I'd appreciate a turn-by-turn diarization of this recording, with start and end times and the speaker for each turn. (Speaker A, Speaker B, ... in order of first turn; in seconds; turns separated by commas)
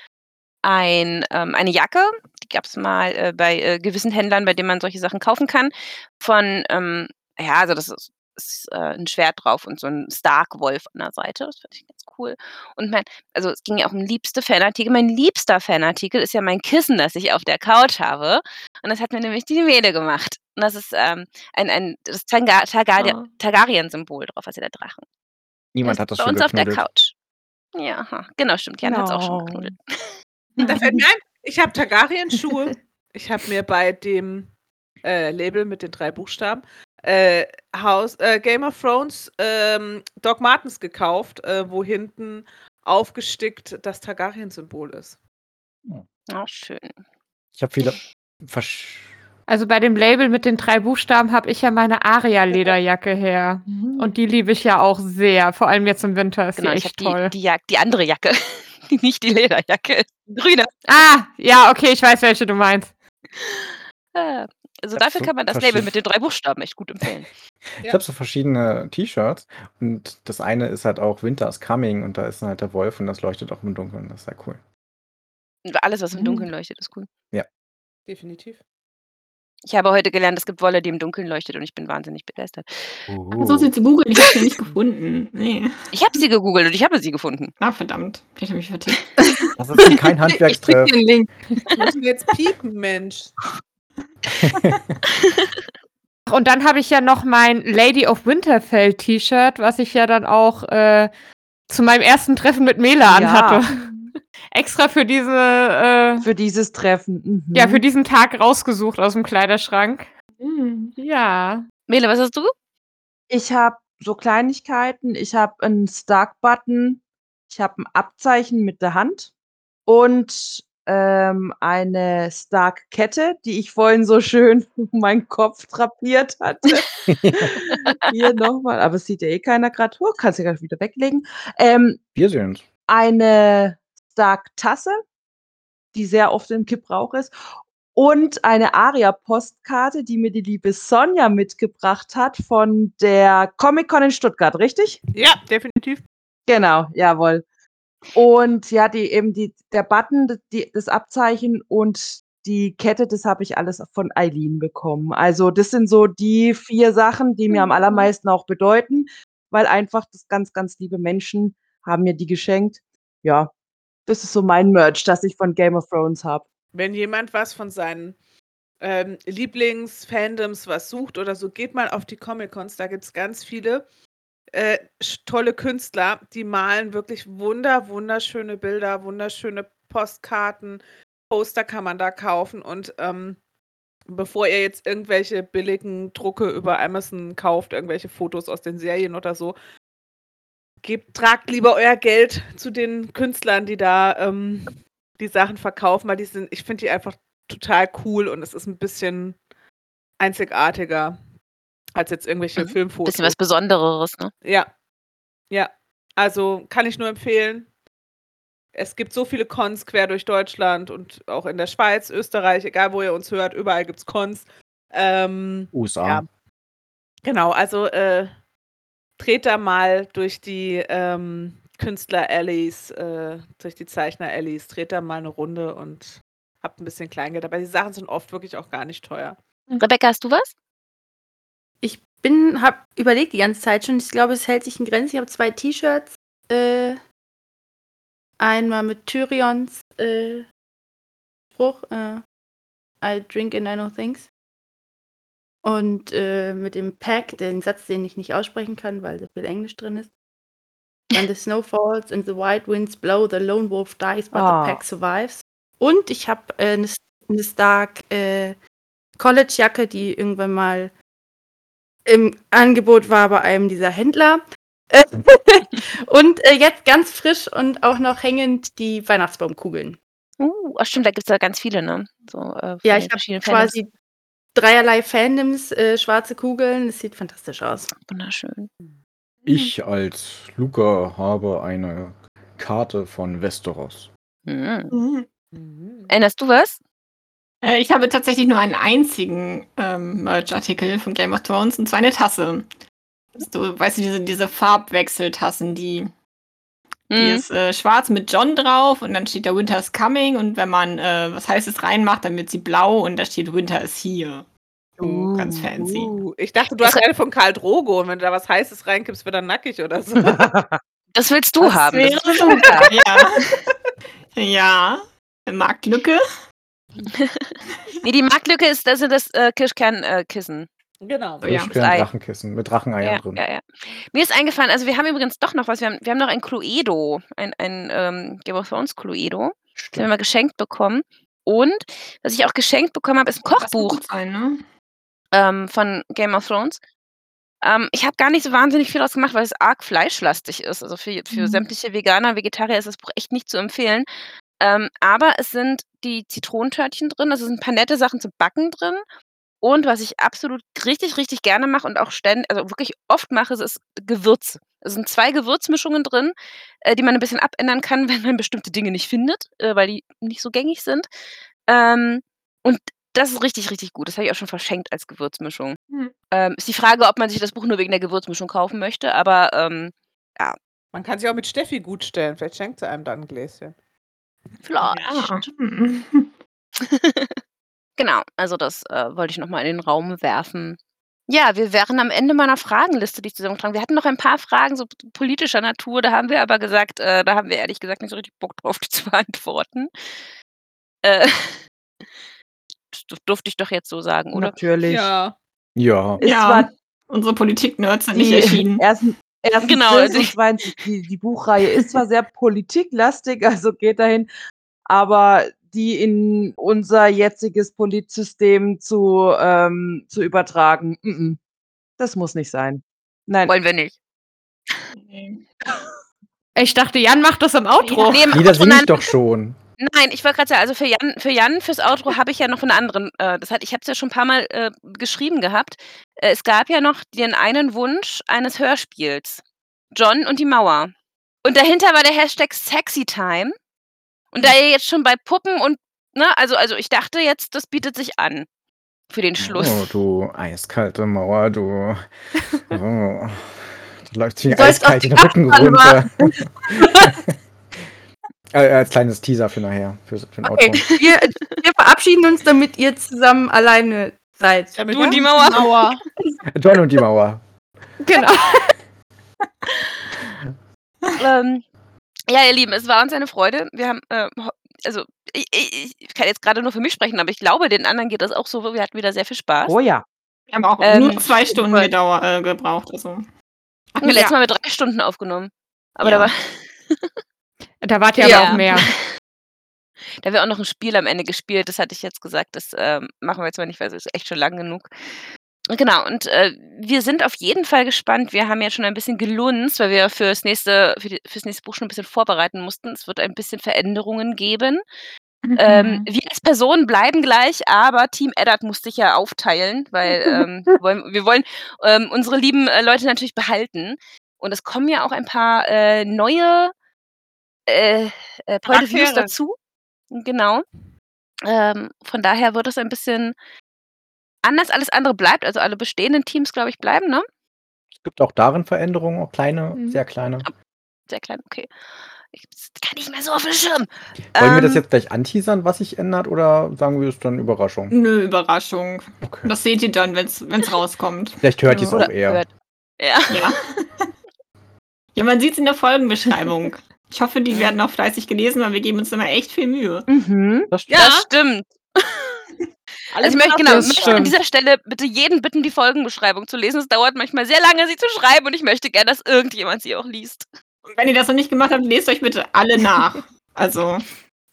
Speaker A: 0.6-25.0, Speaker B: 23.0-23.3, Speaker C: 25.7-26.8, Speaker A: 25.8-27.1, Speaker A: 27.7-30.1, Speaker D: 28.8-29.7, Speaker E: 30.6-34.5, Speaker E: 35.0-45.2, Speaker A: 46.3-47.0, Speaker C: 47.5-49.1, Speaker F: 49.5-57.3, Speaker B: 53.7-54.1, Speaker A: 56.5-60.7, Speaker F: 60.9-62.9, Speaker A: 63.4-67.3, Speaker C: 64.9-65.9, Speaker C: 67.8-74.6, Speaker A: 75.6-77.1, Speaker B: 76.1-76.5, Speaker E: 78.1-78.6, Speaker A: 79.7-83.0, Speaker C: 83.1-83.7, Speaker B: 83.3-85.8, Speaker A: 85.9-87.5, Speaker B: 87.6-89.1, Speaker G: 89.2-91.9, Speaker C: 89.6-91.0, Speaker E: 91.8-93.3, Speaker C: 94.4-94.8, Speaker F: 96.3-101.1, Speaker F: 101.7-103.9, Speaker D: 103.0-103.6, Speaker F: 104.5-106.3, Speaker D: 106.2-107.8, Speaker F: 107.5-110.1, Speaker B: 110.4-110.9, Speaker F: 111.0-111.7, Speaker A: 111.9-112.5, Speaker D: 113.3-119.3, Speaker D: 119.8-132.0, Speaker C: 127.1-127.5, Speaker C: 132.1-132.7, Speaker D: 132.9-135.0, Speaker D: 135.9-137.3, Speaker D: 137.9-145.0, Speaker E: 145.1-146.0, Speaker D: 146.5-147.4, Speaker D: 148.1-163.5, Speaker B: 157.6-158.1, Speaker D: 164.1-166.4, Speaker E: 166.7-168.2, Speaker E: 168.8-173.8, Speaker E: 174.5-183.4, Speaker E: 184.1-189.6, Speaker E: 190.8-199.4, Speaker E: 200.2-201.2, Speaker E: 201.9-203.3, Speaker A: 202.6-204.3, Speaker E: 204.4-204.7, Speaker E: 205.5-207.7, Speaker E: 208.7-216.3, Speaker C: 215.7-216.2, Speaker E: 217.2-218.3, Speaker E: 219.2-229.4, Speaker A: 229.8-230.5, Speaker G: 231.8-237.0, Speaker G: 238.4-240.4, Speaker G: 241.6-242.2, Speaker G: 243.0-244.3, Speaker G: 245.6-250.1, Speaker G: 251.1-258.6, Speaker D: 254.3-254.8, Speaker G: 259.2-260.9, Speaker G: 262.1-270.0, Speaker A: 270.4-273.7, Speaker G: 272.8-273.9, Speaker G: 274.5-277.9, Speaker A: 278.1-278.7, Speaker C: 279.4-284.1, Speaker A: 284.4-284.9, Speaker B: 284.9-285.3, Speaker E: 285.5-286.1, Speaker A: 286.1-286.8, Speaker B: 287.6-292.7, Speaker B: 293.4-296.1, Speaker A: 297.1-297.4, Speaker B: 297.1-304.5, Speaker B: 305.0-306.1, Speaker E: 305.8-310.5, Speaker A: 311.1-312.9, Speaker B: 311.6-313.5, Speaker E: 312.6-312.9, Speaker B: 314.3-316.2, Speaker A: 317.1-320.7, Speaker E: 321.0-321.4, Speaker B: 321.4-321.7, Speaker C: 321.4-323.4, Speaker A: 321.7-322.1, Speaker A: 323.0-334.0, Speaker C: 329.8-330.1, Speaker B: 333.6-334.6, Speaker A: 335.3-336.8, Speaker A: 337.6-344.1, Speaker B: 341.3-341.6, Speaker A: 344.6-349.0, Speaker A: 349.6-361.1, Speaker A: 361.7-365.8, Speaker A: 366.3-370.6, Speaker E: 370.9-373.7, Speaker A: 374.6-375.5, Speaker B: 374.8-376.3, Speaker A: 376.8-377.4, Speaker A: 378.0-389.9, Speaker A: 391.0-391.6, Speaker A: 392.9-394.6, Speaker D: 394.3-395.1, Speaker E: 394.9-395.4, Speaker C: 395.8-396.2, Speaker D: 396.2-396.7, Speaker B: 396.2-398.8, Speaker D: 398.1-404.3, Speaker A: 399.6-400.3, Speaker D: 404.9-411.4, Speaker D: 412.0-413.5, Speaker A: 413.4-413.9, Speaker B: 414.9-415.5, Speaker F: 416.6-418.4, Speaker B: 417.8-418.1, Speaker A: 418.1-419.1, Speaker C: 418.3-419.6, Speaker A: 419.8-430.9, Speaker A: 431.4-433.5, Speaker A: 434.3-438.5, Speaker A: 439.1-440.0, Speaker C: 439.4-442.0, Speaker C: 442.7-447.3, Speaker G: 444.5-447.2, Speaker C: 448.5-450.8, Speaker G: 450.4-455.2, Speaker E: 454.8-456.0, Speaker A: 454.9-456.0, Speaker C: 456.5-457.4, Speaker F: 458.0-458.7, Speaker A: 461.2-461.6, Speaker A: 462.3-469.7, Speaker D: 469.6-470.0, Speaker B: 470.5-473.3, Speaker A: 470.8-471.3, Speaker B: 473.9-474.3, Speaker A: 474.0-477.1, Speaker F: 477.8-478.9, Speaker A: 478.2-479.0, Speaker A: 480.2-484.9, Speaker A: 485.7-494.8, Speaker B: 495.4-496.1, Speaker A: 495.6-506.7, Speaker A: 507.7-509.6, Speaker E: 508.6-509.3, Speaker A: 510.1-510.6, Speaker A: 511.4-513.3, Speaker A: 514.4-517.2, Speaker C: 518.0-520.5, Speaker A: 521.1-521.7, Speaker A: 522.3-524.8, Speaker C: 524.3-527.9, Speaker B: 527.9-531.4, Speaker C: 529.2-529.5, Speaker C: 531.4-532.4, Speaker A: 531.7-533.5, Speaker B: 533.3-534.1, Speaker B: 535.1-540.1, Speaker A: 540.1-542.4, Speaker C: 540.7-541.0, Speaker E: 540.9-541.3, Speaker E: 543.1-544.3, Speaker A: 543.2-550.5, Speaker F: 543.7-544.3, Speaker B: 550.9-554.0